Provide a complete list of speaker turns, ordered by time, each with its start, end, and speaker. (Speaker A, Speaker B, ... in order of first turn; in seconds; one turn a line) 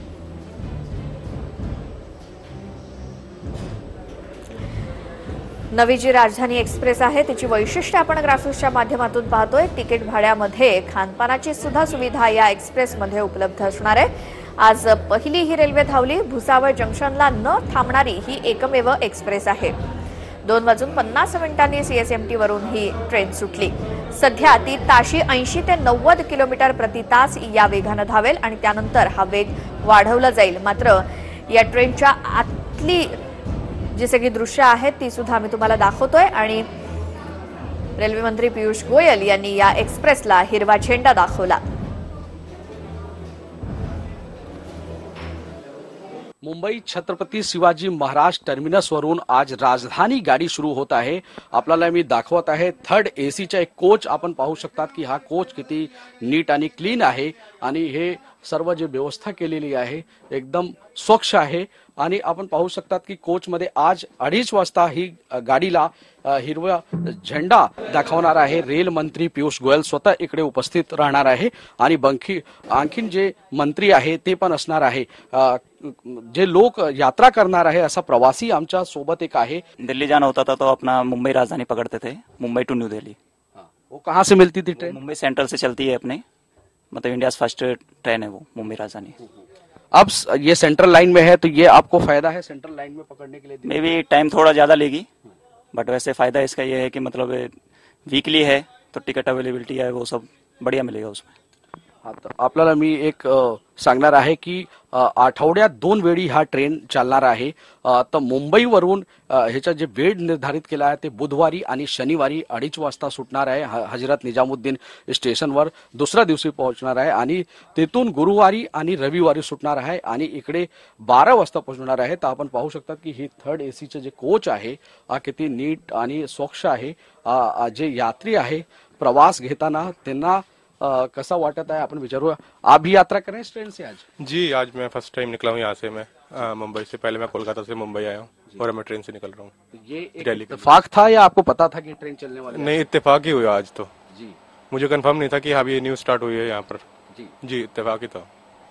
Speaker A: 5.7-19.7
Speaker A: 20.4-33.2
Speaker A: 33.9-36.6
Speaker A: 38.0-41.6
Speaker B: 46.4-79.6
Speaker C: 79.8-83.2
Speaker B: 83.5-85.0
Speaker C: 84.8-86.2
Speaker C: 86.9-89.2
Speaker B: 89.9-93.7
Speaker C: 93.6-95.1
Speaker C: 95.7-97.5
Speaker C: 98.0-101.3
Speaker B: 102.0-134.0
Speaker D: 134.2-139.5
Speaker B: 139.7-142.9
Speaker D: 140.2-140.7
Speaker D: 142.5-143.9
Speaker B: 144.1-144.3
Speaker D: 144.7-146.8
Speaker D: 147.4-148.3